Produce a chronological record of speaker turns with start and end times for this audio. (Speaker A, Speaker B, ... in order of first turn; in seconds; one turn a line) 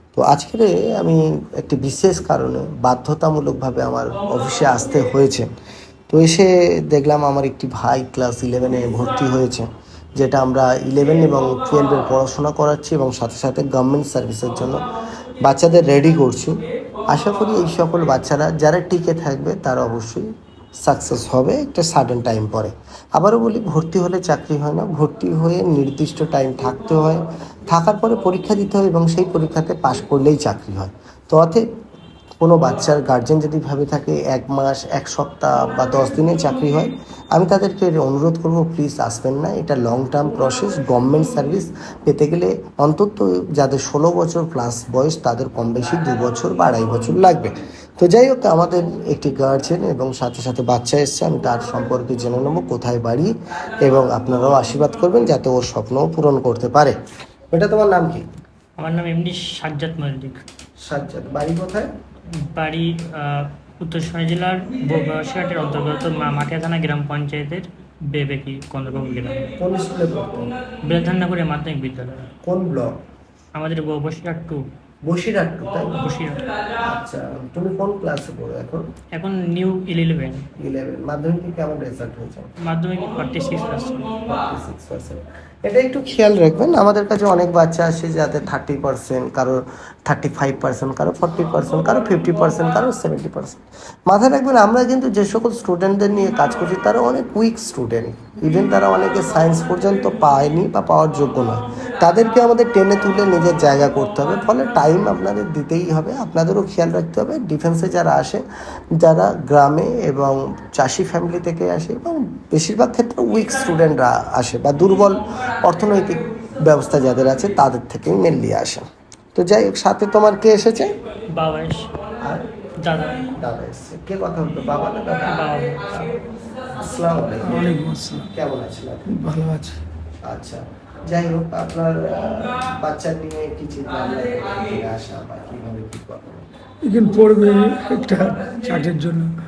Speaker A: 0.2-5.5
Speaker A: 6.1-14.8
Speaker A: 15.4-16.6
Speaker A: 17.1-20.3
Speaker A: 20.8-31.6
Speaker A: 32.4-57.0
Speaker A: 57.5-58.2
Speaker B: 58.8-60.4
Speaker A: 60.8-61.9
Speaker B: 62.4-69.6
Speaker A: 69.6-70.5
Speaker B: 70.9-72.3
Speaker A: 72.5-73.0
Speaker B: 73.5-74.6
Speaker A: 75.1-76.0
Speaker B: 76.0-76.4
Speaker A: 76.8-78.9
Speaker B: 79.2-80.5
Speaker A: 80.6-82.5
Speaker B: 82.6-84.2
Speaker A: 84.3-108.5
Speaker A: 109.0-120.9
Speaker B: 121.3-121.9
Speaker B: 122.8-123.3
Speaker A: 123.2-127.8
Speaker B: 125.2-125.8
Speaker C: 127.4-128.3
Speaker A: 128.3-129.1
Speaker C: 129.1-129.8
Speaker A: 130.2-136.5
Speaker C: 136.8-139.3